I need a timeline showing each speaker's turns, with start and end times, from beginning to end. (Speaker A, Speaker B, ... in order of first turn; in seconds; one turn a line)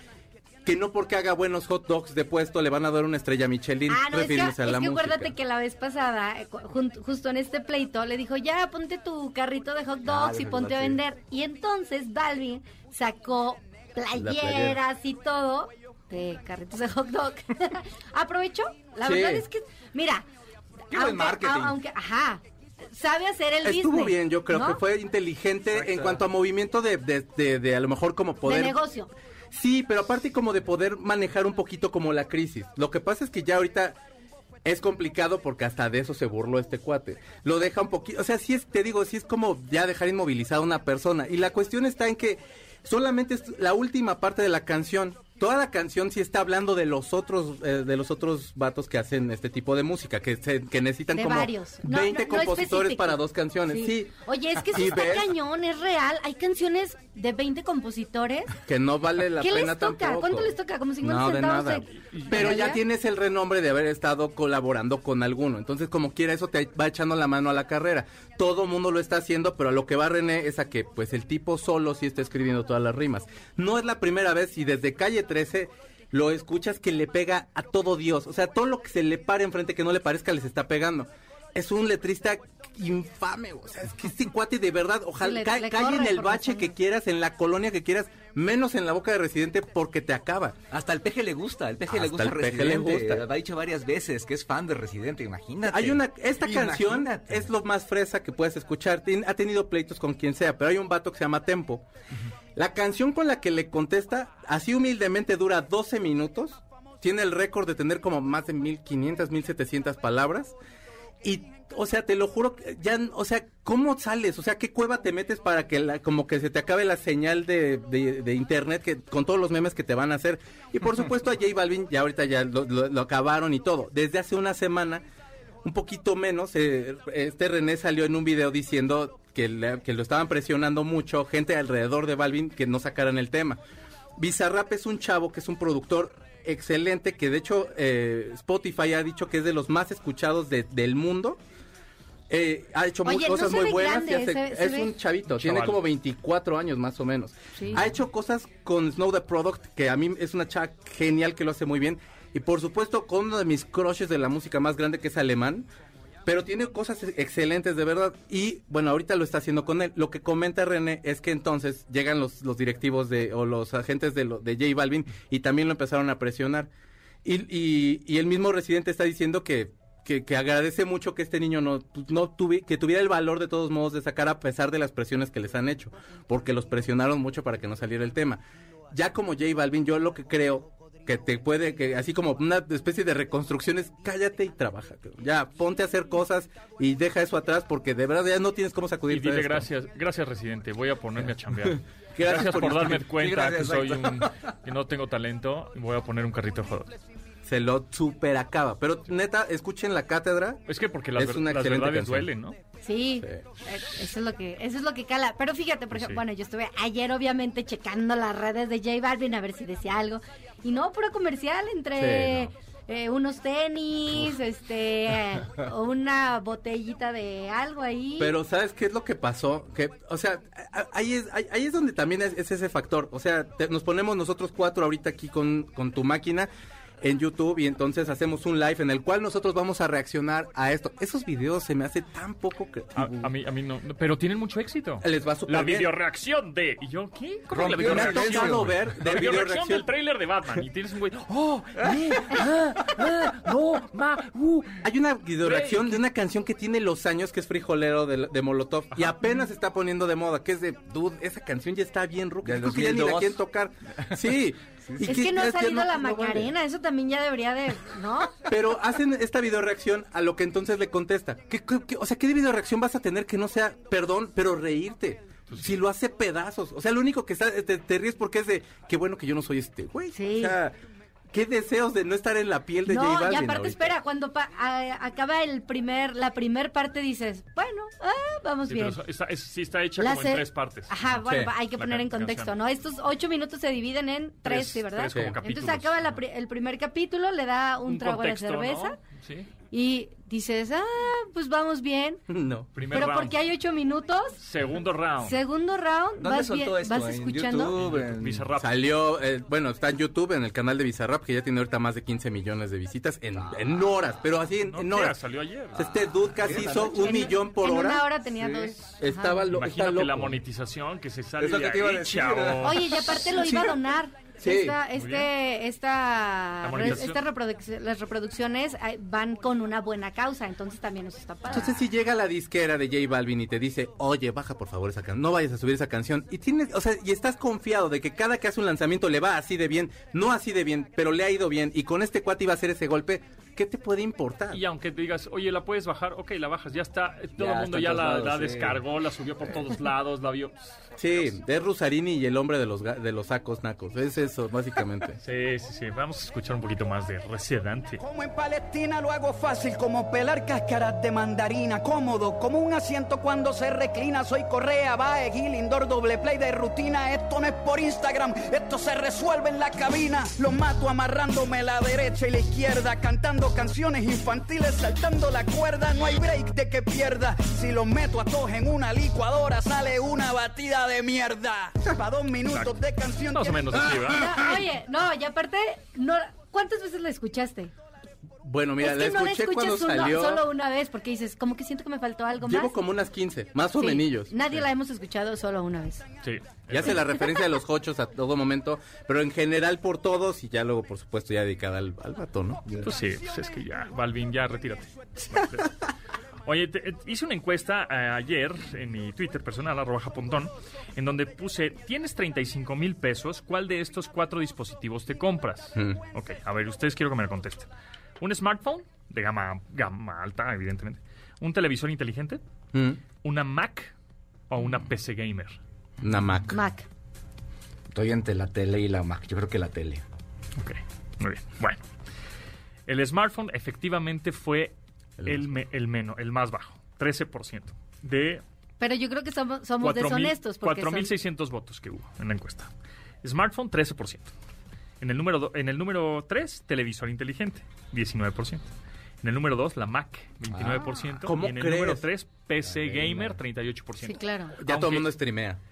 Speaker A: 0.7-5.3
Speaker B: 3.9-20.2
Speaker C: 10.1-11.0
Speaker A: 14.1-14.8
Speaker A: 19.0-19.5
Speaker C: 20.9-21.8
Speaker B: 20.9-24.8
Speaker A: 23.6-28.8
Speaker C: 25.7-26.2
Speaker B: 28.4-29.1
Speaker A: 29.5-34.0
Speaker A: 34.6-55.3
Speaker B: 51.1-58.6
Speaker A: 58.6-90.6
Speaker B: 59.4-62.8
Speaker D: 62.1-62.4
Speaker B: 85.2-86.7
Speaker C: 90.7-97.5
Speaker A: 91.9-93.3
Speaker A: 95.7-101.8
Speaker A: 102.6-110.5
Speaker A: 111.2-125.0
Speaker A: 125.6-133.6
Speaker A: 134.2-141.4
Speaker A: 142.3-155.7
Speaker B: 143.0-145.0
Speaker D: 145.3-145.8
Speaker B: 147.6-147.8
Speaker A: 156.3-166.7
Speaker A: 167.2-189.7
Speaker D: 189.1-196.9
Speaker A: 191.6-193.1
Speaker C: 193.0-194.5
Speaker A: 197.4-200.7
Speaker D: 200.7-202.6
Speaker A: 201.2-202.3
Speaker B: 202.8-218.3
Speaker A: 211.9-212.5
Speaker A: 218.2-226.5
Speaker A: 227.0-233.3
Speaker D: 233.0-244.8
Speaker A: 235.0-235.9
Speaker C: 237.5-238.8
Speaker A: 237.8-239.9
Speaker A: 244.8-256.5
Speaker D: 245.4-246.0
Speaker C: 252.4-253.4
Speaker C: 254.8-255.2
Speaker B: 255.0-258.4
Speaker A: 258.4-270.8
Speaker B: 270.1-270.6
Speaker A: 271.3-273.9
Speaker B: 272.9-279.0
Speaker D: 278.7-281.2
Speaker B: 280.0-289.0
Speaker A: 281.2-281.5
Speaker D: 281.7-282.5
Speaker D: 284.4-286.0
Speaker D: 287.9-289.5
Speaker B: 289.7-292.2
Speaker A: 292.3-292.8
Speaker D: 292.8-293.4
Speaker B: 292.9-294.4
Speaker D: 294.4-295.4
Speaker B: 295.2-297.8
Speaker C: 296.2-298.5
Speaker D: 297.8-298.8
Speaker A: 298.6-305.2
Speaker C: 303.4-303.8
Speaker D: 304.6-305.9
Speaker A: 305.8-308.2
Speaker C: 306.0-307.3
Speaker B: 306.9-309.5
Speaker A: 308.8-310.4
Speaker D: 309.5-313.0
Speaker C: 311.4-313.2
Speaker B: 312.6-321.8
Speaker A: 313.2-313.8
Speaker A: 314.4-314.8
Speaker D: 314.9-315.3
Speaker D: 316.6-317.2
Speaker A: 321.5-334.6
Speaker D: 334.5-340.8
Speaker C: 337.4-338.8
Speaker A: 341.0-345.2
Speaker D: 345.2-348.0
Speaker E: 348.0-374.0
Speaker D: 372.5-372.8
Speaker D: 373.3-374.4
Speaker B: 374.0-377.7
Speaker A: 378.4-380.4
Speaker B: 378.8-382.8
Speaker A: 382.4-384.3
Speaker B: 383.8-386.1
Speaker D: 386.2-387.0
Speaker A: 386.7-392.7
Speaker D: 392.8-395.7
Speaker D: 396.4-412.4
Speaker A: 405.8-406.0
Speaker A: 412.7-413.0
Speaker D: 413.2-413.9
Speaker D: 414.5-415.6
Speaker A: 416.0-416.6
Speaker B: 416.5-416.9
Speaker C: 417.9-420.0
Speaker D: 420.6-421.8
Speaker D: 422.9-428.4
Speaker B: 428.8-431.1
Speaker D: 429.8-432.7
Speaker D: 433.2-434.3
Speaker D: 435.0-438.6
Speaker D: 439.2-445.1
Speaker C: 440.5-441.0
Speaker A: 441.2-442.1
Speaker C: 442.7-443.4
Speaker B: 444.0-444.6
Speaker A: 444.6-445.6